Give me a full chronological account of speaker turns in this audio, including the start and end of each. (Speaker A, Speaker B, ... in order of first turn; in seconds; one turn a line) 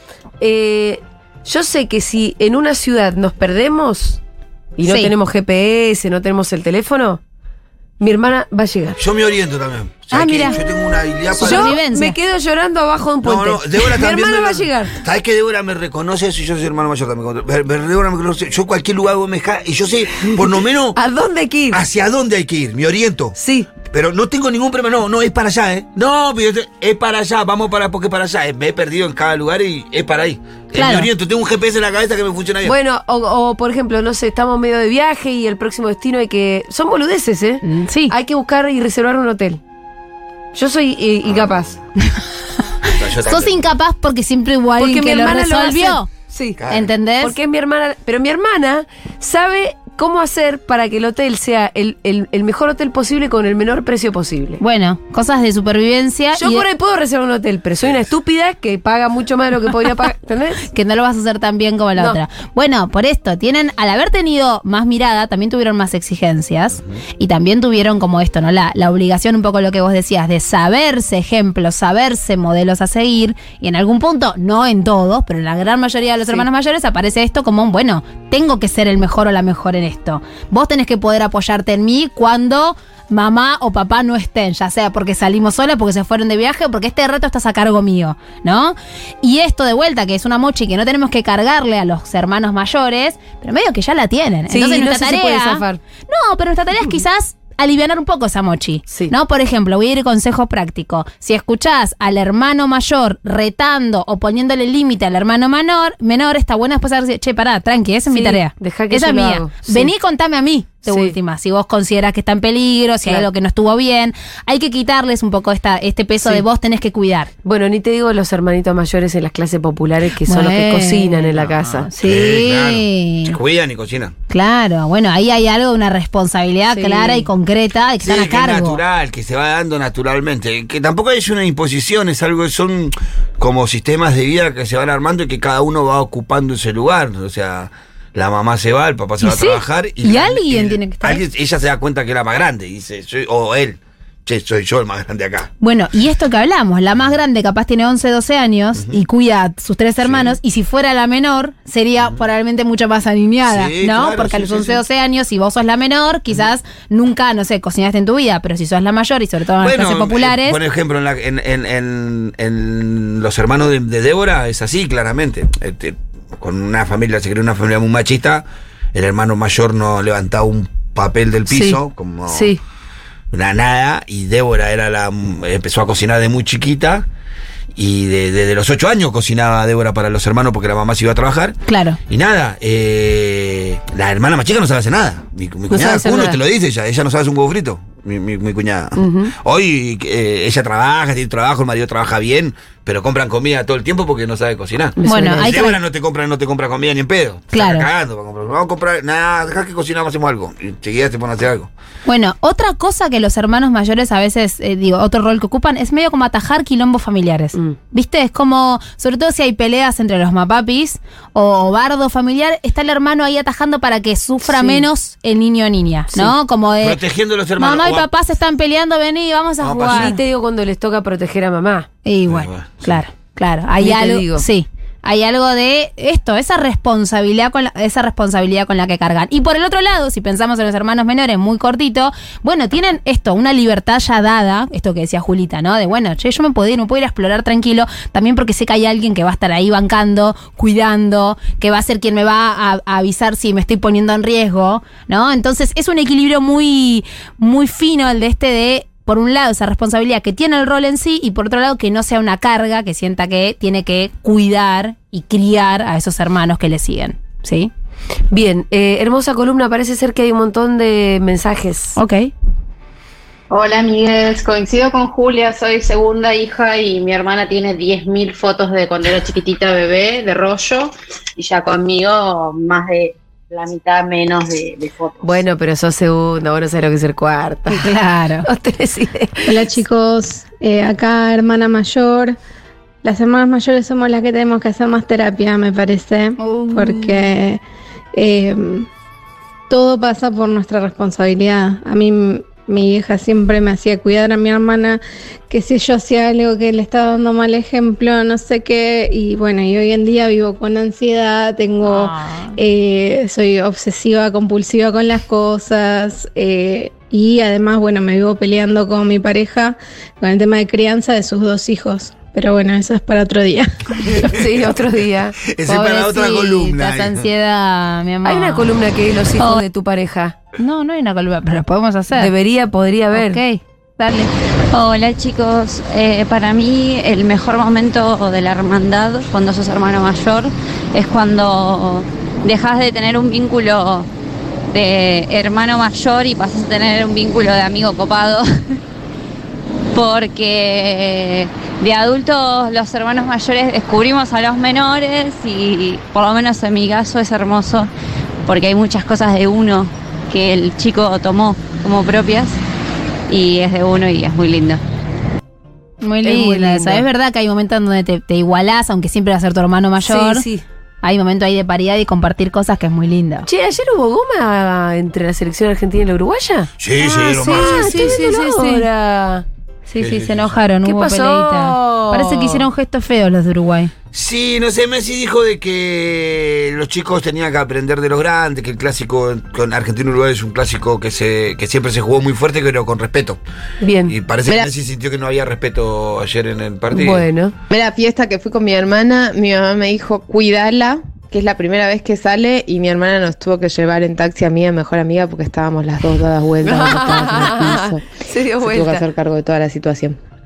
Speaker A: 0.4-4.2
Speaker A: 4.8-7.2
Speaker B: 4.8-5.1
Speaker A: 8.0-9.0
Speaker C: 9.0-11.8
Speaker B: 10.1-10.6
Speaker B: 11.4-12.2
Speaker A: 11.4-14.9
Speaker C: 13.2-21.0
Speaker A: 21.0-21.8
Speaker C: 21.7-32.8
Speaker A: 23.4-23.7
Speaker B: 30.7-31.1
Speaker A: 32.6-39.6
Speaker B: 37.6-38.1
Speaker A: 40.5-41.8
Speaker C: 41.3-41.8
Speaker B: 42.8-46.1
Speaker C: 42.9-43.7
Speaker A: 44.8-46.6
Speaker C: 46.6-46.9
Speaker B: 46.7-47.4
Speaker A: 47.2-54.6
Speaker B: 54.6-56.7
Speaker A: 56.4-60.6
Speaker B: 60.7-117.3
Speaker A: 94.5-95.8
Speaker A: 108.1-109.9
Speaker A: 110.8-111.2
Speaker A: 117.4-121.9
Speaker B: 120.3-123.4
Speaker C: 122.0-124.1
Speaker B: 124.3-128.8
Speaker A: 126.7-127.3
Speaker C: 128.0-145.5
Speaker B: 139.2-141.2
Speaker B: 145.6-160.6
Speaker C: 150.0-150.4
Speaker C: 153.4-154.8
Speaker C: 159.6-172.5
Speaker A: 171.5-171.8
Speaker A: 172.3-172.6
Speaker C: 173.3-177.1
Speaker C: 177.8-201.7
Speaker B: 181.7-182.0
Speaker A: 185.7-186.4
Speaker A: 189.0-189.3
Speaker A: 195.0-195.6
Speaker B: 195.1-195.8
Speaker B: 197.5-197.9
Speaker B: 202.1-217.0
Speaker A: 214.5-214.9
Speaker C: 216.8-218.1
Speaker B: 217.6-220.2
Speaker C: 219.6-220.2
Speaker A: 219.9-221.9
Speaker B: 222.1-257.7
Speaker C: 222.3-223.0
Speaker A: 223.8-224.4
Speaker A: 258.3-262.0
Speaker B: 262.0-262.3
Speaker D: 263.5-275.4
Speaker A: 275.2-277.9
Speaker B: 277.7-278.5
Speaker A: 278.4-279.8
Speaker E: 279.4-282.4
Speaker E: 283.0-287.6
Speaker B: 286.4-287.3
Speaker E: 288.1-288.9
Speaker E: 289.7-314.2
Speaker B: 301.9-302.6
Speaker C: 314.2-314.7
Speaker A: 314.2-315.4
Speaker C: 315.4-317.3
Speaker B: 315.7-318.8
Speaker A: 318.2-320.4
Speaker B: 320.6-322.3
Speaker A: 322.1-323.4
Speaker B: 323.1-324.3
Speaker F: 324.7-334.1
Speaker F: 334.7-338.8
Speaker F: 339.9-347.9
Speaker F: 348.5-352.6
Speaker F: 353.3-354.8
Speaker B: 356.0-360.4
Speaker A: 356.2-357.1
Speaker A: 360.0-360.6
Speaker B: 361.0-363.5
Speaker A: 363.5-370.2
Speaker C: 366.8-368.2
Speaker B: 367.0-368.9
Speaker C: 370.0-370.5
Speaker B: 370.0-373.9
Speaker A: 370.9-372.7
Speaker C: 374.1-383.4
Speaker A: 383.8-384.1
Speaker C: 384.1-387.3
Speaker A: 386.9-387.6
Speaker G: 387.7-400.2
Speaker A: 396.6-399.1